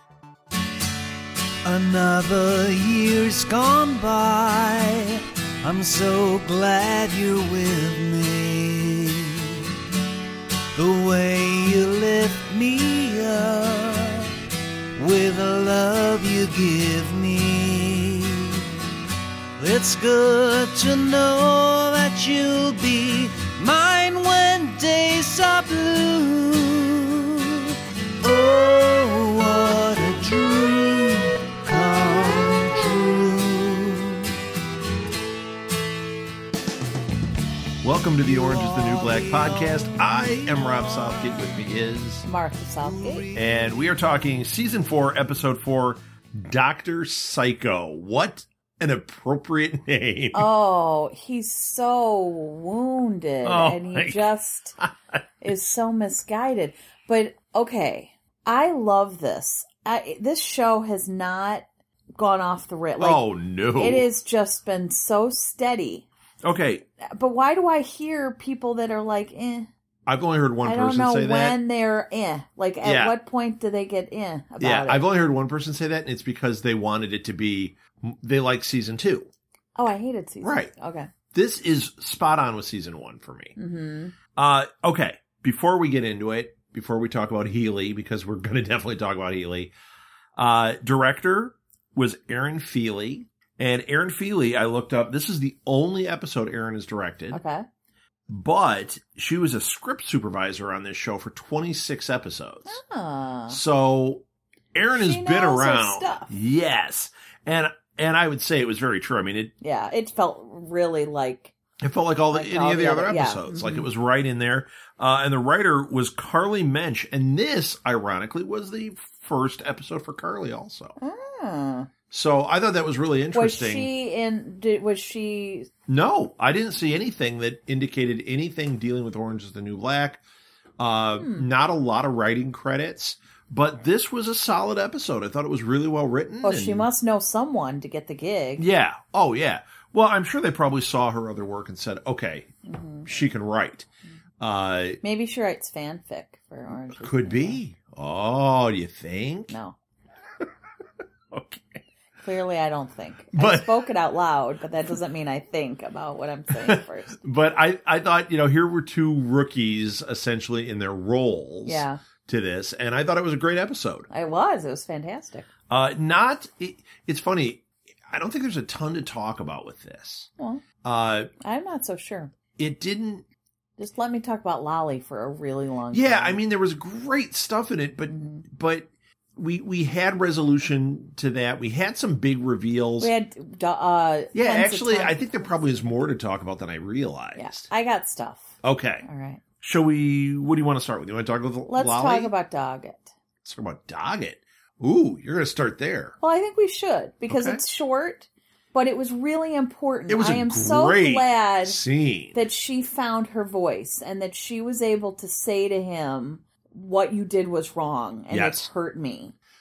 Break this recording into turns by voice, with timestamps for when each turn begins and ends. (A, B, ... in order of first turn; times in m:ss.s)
0:01.6-0:09.6 A
0:10.7-0:14.3 A
0:15.0-0:18.6 A
0:19.6-0:34.3 A
0:37.8-0:42.3 B
0:38.7-0:39.8 A
0:42.2-0:43.3 C
0:42.8-0:43.4 A
0:43.3-0:50.5 B
0:50.3-0:54.7 C
0:53.4-0:54.2 B
0:55.4-1:01.6 C
1:02.2-1:03.2 C
1:03.0-1:04.1 B
1:03.8-1:06.1 C
1:06.4-1:06.8 B
1:07.0-1:09.7 C
1:10.1-1:11.6 B
1:10.6-1:15.0 C
1:12.8-1:13.1 B
1:14.6-1:19.3 B
1:19.8-1:21.1 C
1:20.4-1:20.7 B
1:21.3-1:23.5 B
1:23.6-1:24.1 C
1:24.3-1:29.7 B
1:30.4-1:37.4 B
1:37.3-1:37.6 C
1:38.3-1:42.8 B
1:42.7-1:43.6 C
1:43.5-1:44.2 B
1:44.7-1:49.5 B
1:45.0-1:46.3 C
1:49.6-1:51.5 C
1:51.8-2:01.0 B
1:52.3-1:53.9 C
2:01.0-2:01.9 C
2:02.1-2:03.9 B
2:03.3-2:05.7 C
2:05.9-2:10.2 B
2:10.8-2:16.9 B
2:11.2-2:11.4 C
2:16.4-2:18.6 C
2:18.6-2:22.5 B
2:22.6-2:23.1 C
2:23.0-2:23.9 B
2:24.4-2:25.0 B
2:25.0-2:27.6 C
2:27.0-2:29.6 B
2:29.5-2:29.8 C
2:31.3-2:31.8 B
2:32.2-2:37.2 C
2:33.3-2:33.8 B
2:36.6-2:44.1 B
2:41.6-2:42.0 C
2:44.1-2:45.5 C
2:45.7-2:50.3 B
2:50.4-2:50.6 C
2:50.8-2:51.3 B
2:51.4-2:52.3 C
2:52.6-2:53.2 B
2:53.8-2:56.4 C
2:55.9-3:03.1 B
2:58.1-2:58.4 C
3:03.0-3:05.5 C
3:04.3-3:07.6 B
3:07.3-3:09.4 C
3:08.6-3:09.0 B
3:09.6-3:12.3 B
3:11.7-3:13.1 C
3:13.4-3:16.2 B
3:16.2-3:21.8 C
3:17.3-3:17.6 B
3:20.1-3:22.4 B
3:22.3-3:29.3 C
3:28.3-3:28.7 B